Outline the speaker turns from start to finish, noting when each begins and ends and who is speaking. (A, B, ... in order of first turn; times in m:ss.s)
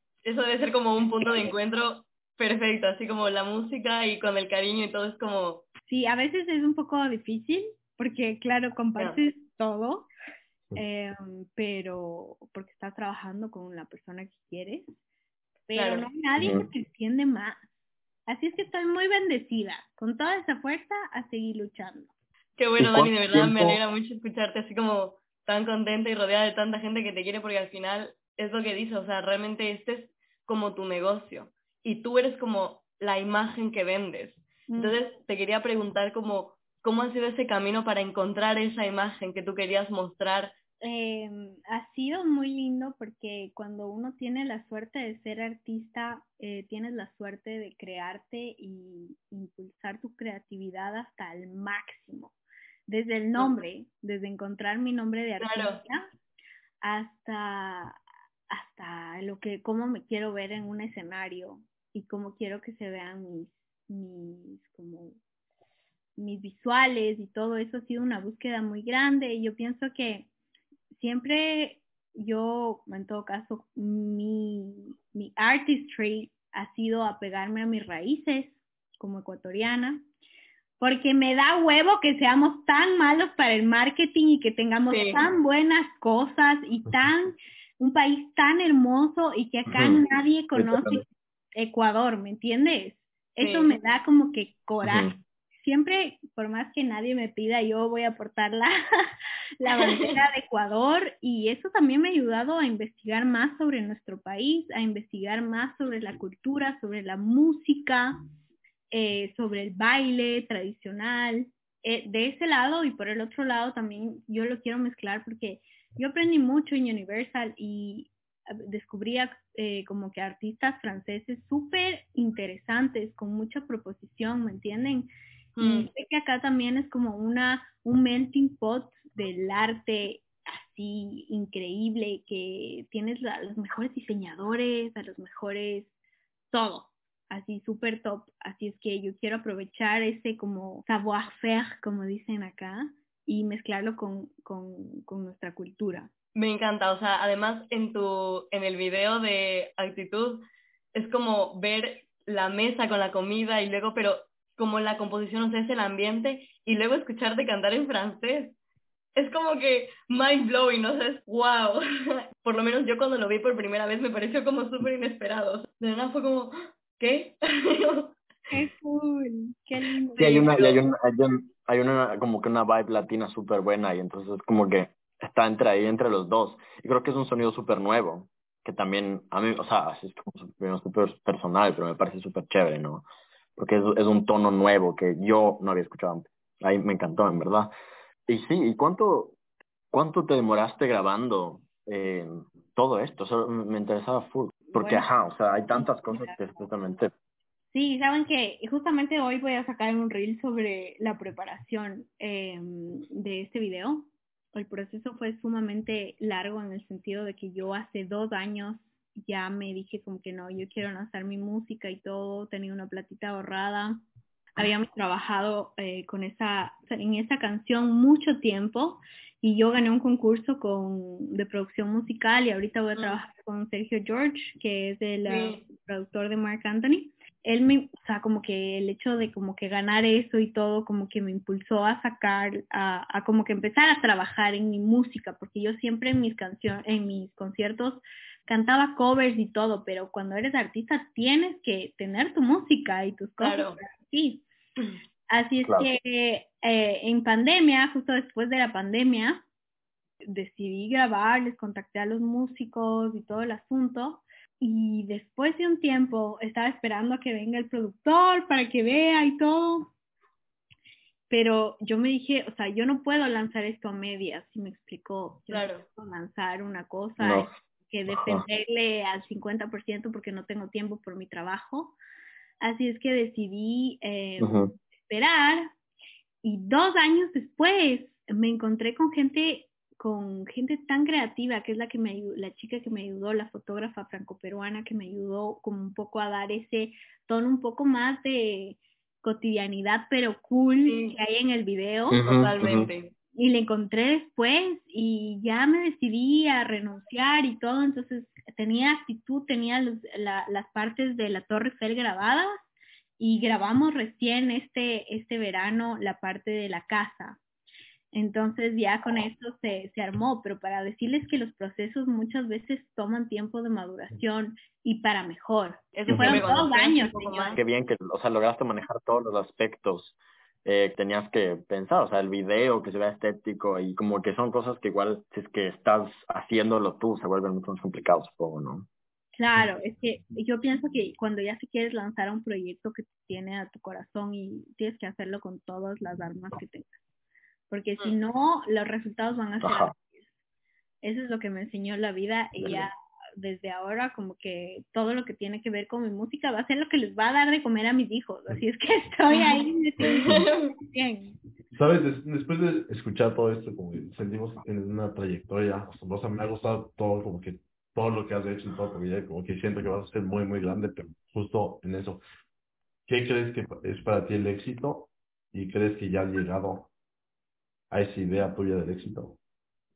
0:00.2-0:05.7 A
0:05.9-0:10.1 B
0:10.7-0:15.0 B
0:15.7-0:17.7 B
0:15.7-0:16.0 A
0:16.4-0:16.7 C
0:18.3-0:22.1 B
0:22.6-0:40.5 A
0:22.8-0:23.8 C
0:34.7-0:35.0 B
0:40.8-0:52.3 B
0:52.9-0:56.1 B
0:55.4-0:55.8 A
0:56.8-1:05.2 B
1:06.2-1:10.3 B
1:10.9-1:20.0 B
1:20.8-1:48.2 B
1:24.9-1:25.2 A
1:29.7-1:30.0 C
1:30.5-1:31.0 C
1:33.4-1:33.7 A
1:34.8-1:35.2 C
1:39.7-1:40.1 A
1:48.9-2:15.9 B
2:05.6-2:05.9 A
2:16.5-2:26.1 B
2:26.3-2:30.4 A
2:30.9-2:38.6 A
2:39.1-2:48.2 A
2:48.5-2:50.5 B
2:50.2-2:50.8 A
2:50.2-3:03.0 C
3:03.6-3:07.7 C
3:08.3-3:09.4 C
3:09.9-3:17.1 C
3:14.7-3:15.1 B
3:15.7-3:16.6 B
3:17.7-3:34.0 B
3:34.6-4:04.4 B
3:43.0-3:43.2 A
3:45.2-3:45.6 A
4:03.4-4:03.8 A
4:05.3-4:09.4 B
4:05.6-4:05.9 C
4:10.2-4:19.9 B
4:21.3-4:32.0 B
4:25.5-4:25.8 A
4:27.2-4:27.5 C
4:28.2-4:28.4 C
4:32.6-4:35.7 B
4:34.4-4:34.7 C
4:36.4-4:52.2 B
4:50.8-4:51.2 A
4:52.1-4:52.9 C
4:52.2-4:53.1 A
4:53.3-5:02.6 B
5:03.2-5:07.4 B
5:08.1-5:17.6 B
5:16.0-5:17.6 A
5:16.1-5:16.4 C
5:17.6-5:28.9 C
5:29.4-5:37.0 B
5:37.7-5:40.3 B
5:39.6-5:39.9 C
5:41.0-5:51.3 B
5:42.6-5:42.9 C
5:50.0-5:50.7 A
5:51.7-6:02.2 D
6:03.1-6:06.9 D
6:07.9-6:09.4 D